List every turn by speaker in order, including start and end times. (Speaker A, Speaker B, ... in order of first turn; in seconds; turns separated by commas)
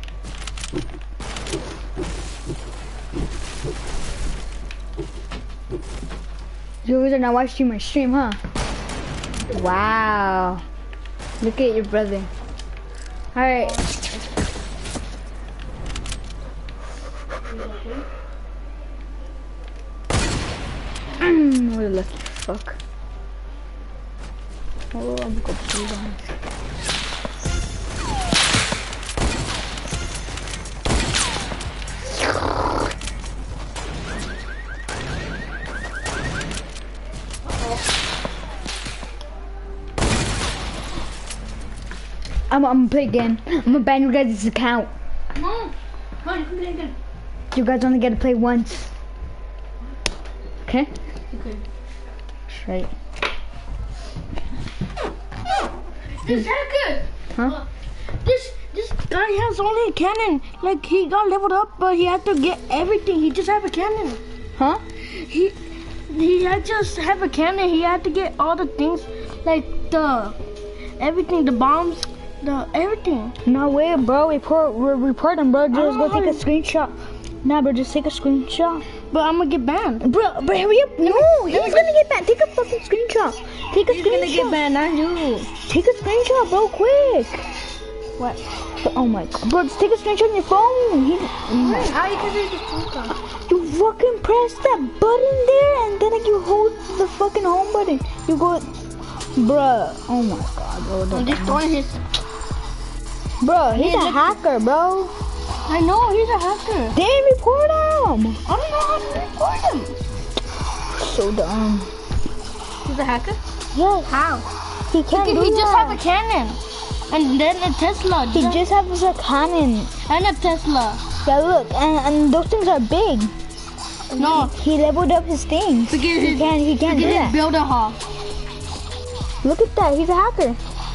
Speaker A: 6.8-8.4, Speaker A: 9.5-10.6, Speaker A: 11.4-12.3, Speaker A: 13.3-13.8, Speaker B: 13.6-14.2, Speaker B: 17.4-18.0, Speaker A: 21.2-22.8, Speaker A: 24.9-26.3, Speaker B: 37.5-37.8, Speaker A: 42.5-44.9, Speaker B: 45.3-46.9, Speaker A: 47.5-48.9, Speaker A: 50.6-50.9, Speaker B: 51.3-51.6, Speaker A: 52.5-52.9, Speaker B: 56.1-64.2, Speaker A: 64.6-64.8, Speaker B: 65.0-65.5, Speaker B: 66.1-70.3, Speaker B: 71.0-73.3, Speaker A: 73.4-78.8, Speaker B: 75.7-76.4, Speaker B: 79.1-80.0, Speaker A: 80.0-84.6, Speaker B: 81.0-81.9, Speaker B: 83.7-85.5, Speaker A: 85.6-87.5, Speaker A: 88.8-92.0, Speaker B: 91.6-93.2, Speaker A: 93.5-98.7, Speaker A: 99.3-101.6, Speaker B: 101.1-102.0, Speaker A: 103.4-105.1, Speaker B: 103.7-104.4, Speaker B: 105.7-107.0, Speaker A: 106.9-108.4, Speaker B: 108.5-109.3, Speaker A: 109.3-109.9, Speaker A: 110.9-111.9, Speaker B: 112.8-113.4, Speaker A: 113.7-116.0, Speaker B: 115.1-118.6, Speaker A: 118.3-119.9, Speaker B: 120.1-121.0, Speaker A: 121.2-123.3, Speaker A: 124.1-127.4, Speaker B: 124.1-124.5, Speaker B: 125.9-128.0, Speaker A: 129.4-130.6